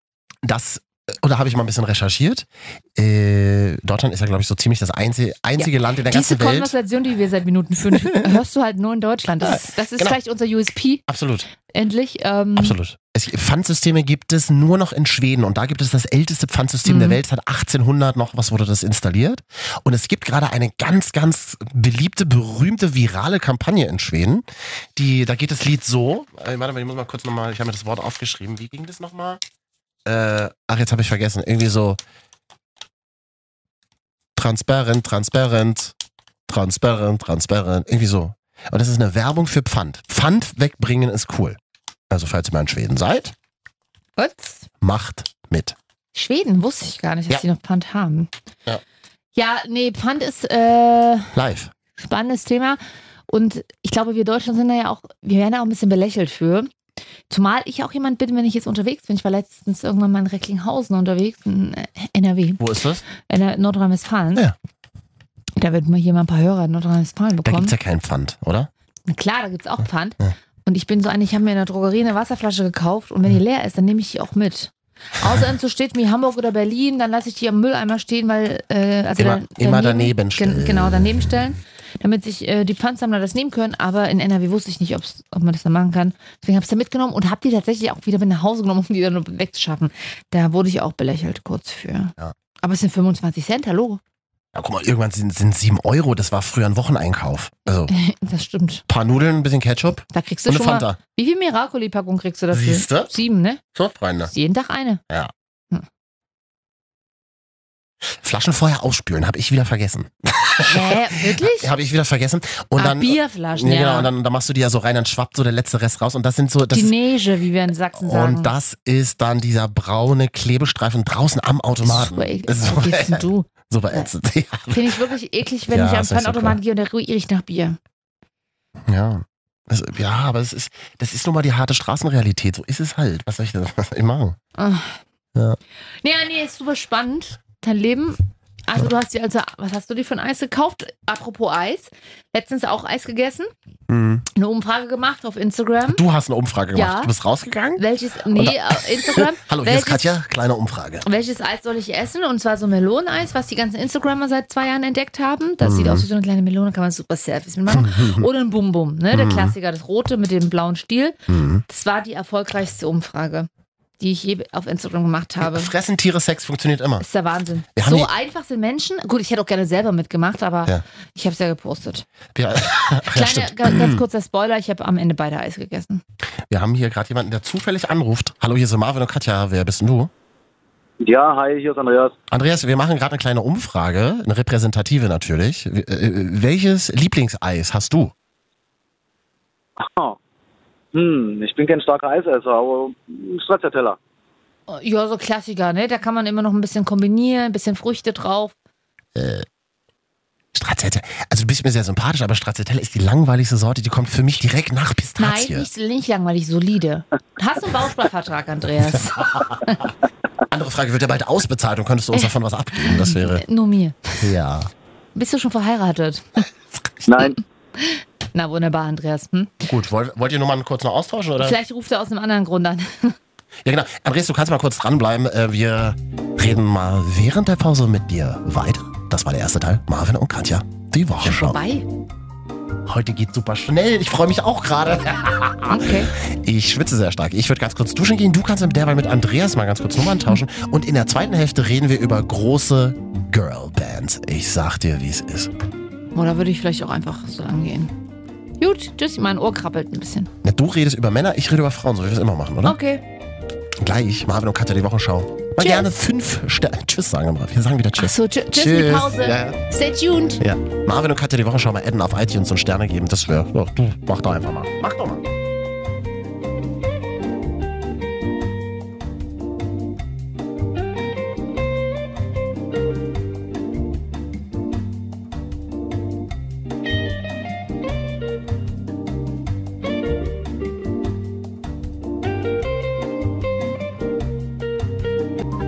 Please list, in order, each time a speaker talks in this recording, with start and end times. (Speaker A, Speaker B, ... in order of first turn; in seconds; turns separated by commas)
Speaker A: 0.4-6.7, Speaker B: 5.6-11.0, Speaker A: 7.9-8.4, Speaker A: 9.4-10.2, Speaker A: 11.1-11.5, Speaker B: 11.7-12.7, Speaker A: 12.6-24.4, Speaker B: 16.8-17.2, Speaker A: 24.9-29.4, Speaker A: 30.0-32.0, Speaker A: 34.4-35.9, Speaker A: 36.5-41.6, Speaker A: 42.1-43.3, Speaker B: 44.2-44.7, Speaker A: 44.8-45.8, Speaker B: 46.1-48.3, Speaker B: 49.3-51.3, Speaker A: 51.3-51.7, Speaker B: 52.0-56.7, Speaker B: 57.3-62.6, Speaker A: 62.6-63.0, Speaker B: 63.2-64.4, Speaker B: 65.6-67.7, Speaker A: 67.4-68.7, Speaker B: 69.1-94.0, Speaker A: 79.2-81.3, Speaker A: 94.5-97.9, Speaker B: 97.9-98.8, Speaker A: 98.9-101.0, Speaker B: 100.1-103.6, Speaker A: 102.5-103.1, Speaker A: 103.7-104.3, Speaker B: 104.3-105.0, Speaker A: 108.1-116.9, Speaker B: 110.6-111.7, Speaker B: 112.8-114.1, Speaker B: 116.7-118.5, Speaker A: 118.0-125.0, Speaker B: 121.8-124.1, Speaker B: 124.7-127.8, Speaker A: 125.7-126.6, Speaker A: 128.9-134.4, Speaker B: 134.6-135.0, Speaker B: 136.0-143.5, Speaker A: 143.9-144.2, Speaker B: 144.3-146.0, Speaker A: 145.8-147.8, Speaker B: 146.7-147.1, Speaker B: 147.8-150.2, Speaker A: 148.3-151.1, Speaker B: 151.0-163.5, Speaker A: 155.6-156.1, Speaker A: 157.7-158.3, Speaker A: 159.1-159.5, Speaker A: 161.3-161.6, Speaker B: 164.0-165.7, Speaker A: 165.4-167.0, Speaker B: 167.0-172.0, Speaker A: 167.7-168.1, Speaker A: 172.3-174.0, Speaker B: 173.1-176.0, Speaker A: 176.5-180.1, Speaker C: 181.0-182.1, Speaker A: 182.3-188.1, Speaker C: 189.9-190.2, Speaker C: 190.9-194.0, Speaker B: 194.7-198.5, Speaker A: 199.2-199.4, Speaker A: 200.5-205.7, Speaker B: 205.2-209.9, Speaker A: 208.9-209.5, Speaker A: 210.5-213.4, Speaker B: 212.1-214.2, Speaker A: 214.2-214.7, Speaker B: 215.1-216.4, Speaker C: 217.1-217.4, Speaker B: 217.8-219.6, Speaker A: 219.7-221.6, Speaker B: 221.4-223.2, Speaker A: 223.6-231.6, Speaker B: 231.2-231.9, Speaker A: 232.8-245.5, Speaker B: 235.7-236.1, Speaker B: 246.1-247.9, Speaker B: 248.6-250.3, Speaker A: 250.4-252.8, Speaker B: 252.6-253.0, Speaker A: 253.8-259.6, Speaker B: 255.6-255.9, Speaker B: 258.0-260.4, Speaker A: 260.4-265.2